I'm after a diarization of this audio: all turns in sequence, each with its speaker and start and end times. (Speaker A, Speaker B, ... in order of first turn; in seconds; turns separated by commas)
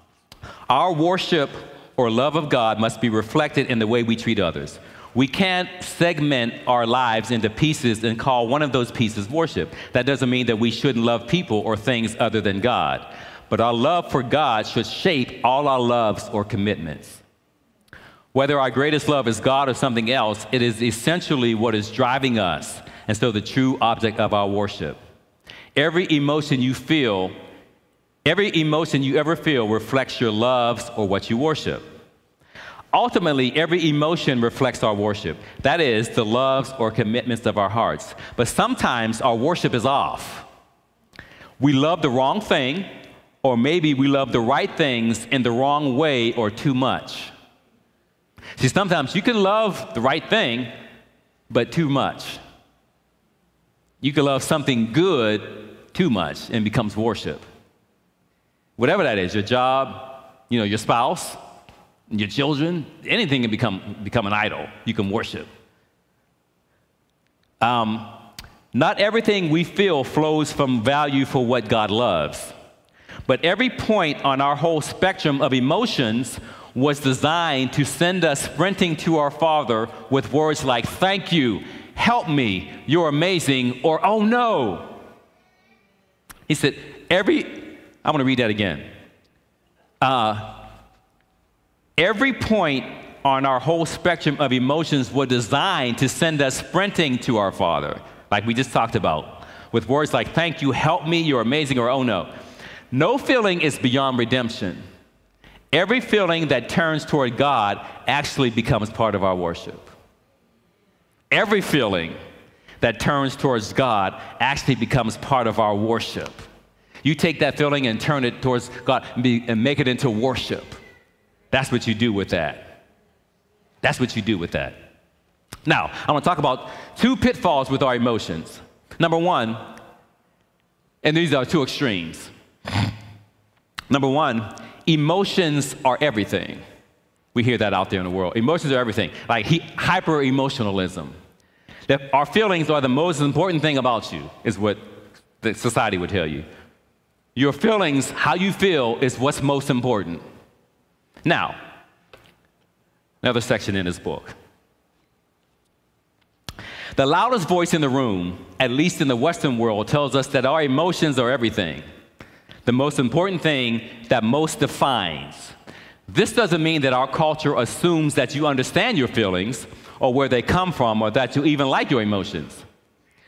Speaker A: 0.7-17.2, Speaker A: 18.3-25.0, Speaker A: 25.8-27.3, Speaker A: 28.3-31.9, Speaker A: 32.9-40.5, Speaker A: 41.6-42.9, Speaker A: 43.4-47.3, Speaker A: 48.6-50.7, Speaker A: 51.5-52.4, Speaker A: 54.0-57.5, Speaker A: 58.8-61.4, Speaker A: 62.1-65.5, Speaker A: 67.6-68.1, Speaker A: 68.7-72.5, Speaker A: 73.3-85.0, Speaker A: 86.5-88.9, Speaker A: 90.0-90.7, Speaker A: 92.0-102.3, Speaker A: 102.9-104.8, Speaker A: 105.7-109.9, Speaker A: 111.3-112.2, Speaker A: 112.8-116.5, Speaker A: 117.0-120.8, Speaker A: 121.5-122.8, Speaker A: 123.8-124.8, Speaker A: 125.7-129.7, Speaker A: 131.0-132.8, Speaker A: 133.9-136.6, Speaker A: 137.3-141.2, Speaker A: 141.9-144.8, Speaker A: 145.4-146.5, Speaker A: 147.4-150.2, Speaker A: 151.2-151.6, Speaker A: 153.2-154.3, Speaker A: 157.0-161.8, Speaker A: 162.7-165.6, Speaker A: 166.1-172.6